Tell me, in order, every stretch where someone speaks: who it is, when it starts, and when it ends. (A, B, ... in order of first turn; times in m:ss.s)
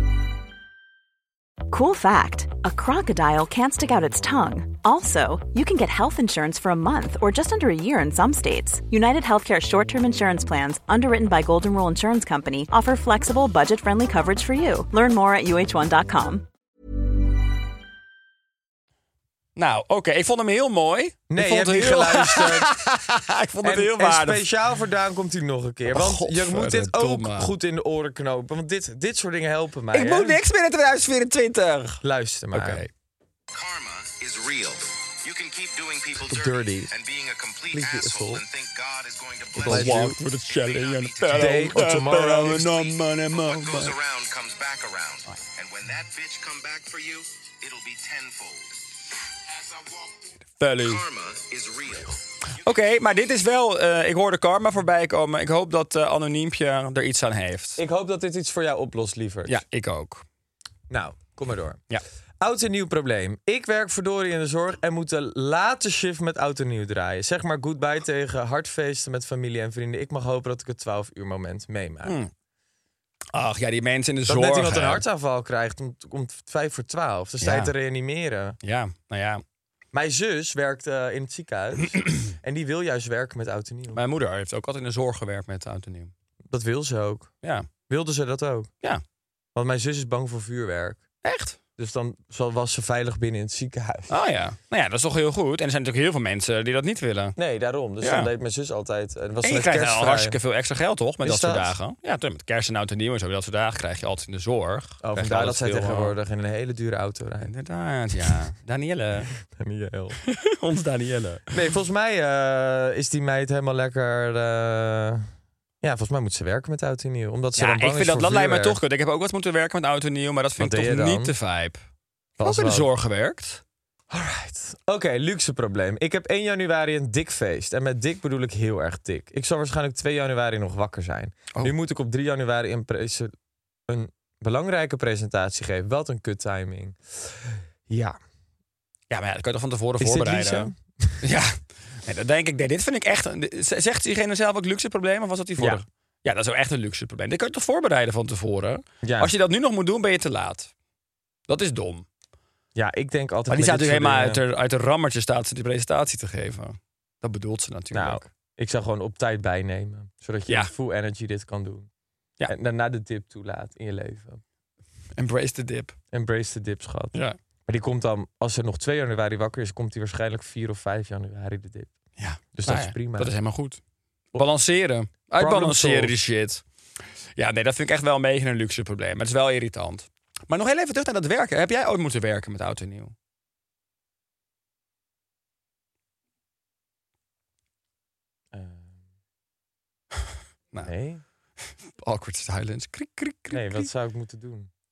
0:01.7-0:16.5 A
0:19.6-0:24.4 B
0:21.3-0:22.7 C
0:23.6-0:30.4 C
0:25.9-0:27.5 B
0:29.9-0:32.0 B
0:32.0-0:32.9 C
0:32.5-0:32.9 B
0:33.5-0:41.7 D
0:36.3-0:36.9 C
0:37.7-0:38.4 C
0:39.6-0:43.9 B
0:39.6-0:40.2 C
0:41.3-0:42.7 C
0:42.6-0:48.8 D
0:49.5-0:52.2 D
0:50.6-0:51.0 B
0:52.6-0:57.8 B
0:57.8-0:59.6 C
0:59.5-1:00.2 B
1:00.9-1:01.8 C
1:02.4-1:12.2 C
1:12.0-1:12.3 B
1:13.3-1:15.0 B
1:14.3-1:18.6 C
1:17.4-1:17.7 B
1:18.6-1:19.4 B
1:19.9-1:24.0 C
1:23.9-1:26.1 B
1:26.5-1:27.3 C
1:27.4-1:27.7 B
1:27.9-1:28.7 C
1:29.6-1:31.0 C
1:31.2-1:31.6 B
1:31.8-1:34.1 C
1:34.1-1:37.4 B
1:37.4-1:40.4 C
1:38.0-1:38.3 B
1:39.4-1:46.2 B
1:41.2-1:41.7 C
1:45.0-1:47.5 C
1:47.4-1:49.3 B
1:49.5-1:50.2 C
1:50.3-1:51.5 B
1:51.5-1:55.3 C
1:55.8-1:58.8 C
1:57.6-2:01.8 B
2:00.6-2:01.3 C
2:02.4-2:02.9 C
2:02.4-2:03.6 B
2:04.1-2:13.3 C
2:13.9-2:18.2 C
2:19.1-2:30.7 B
2:20.0-2:21.2 C
2:25.6-2:25.8 C
2:29.0-2:29.3 C
2:31.5-2:32.0 B
2:32.8-2:34.4 C
2:33.5-2:38.3 B
2:37.9-2:41.9 C
2:42.5-2:44.4 C
2:45.2-2:46.0 B
2:46.1-2:47.1 C
2:47.7-2:51.9 C
2:52.2-2:53.8 B
2:52.6-2:53.3 C
2:54.4-2:56.6 B
2:55.4-2:56.1 C
2:57.4-3:03.1 B
3:08.5-3:08.9 C
3:10.8-3:11.2 C
3:12.0-3:13.9 B
3:13.5-3:14.7 C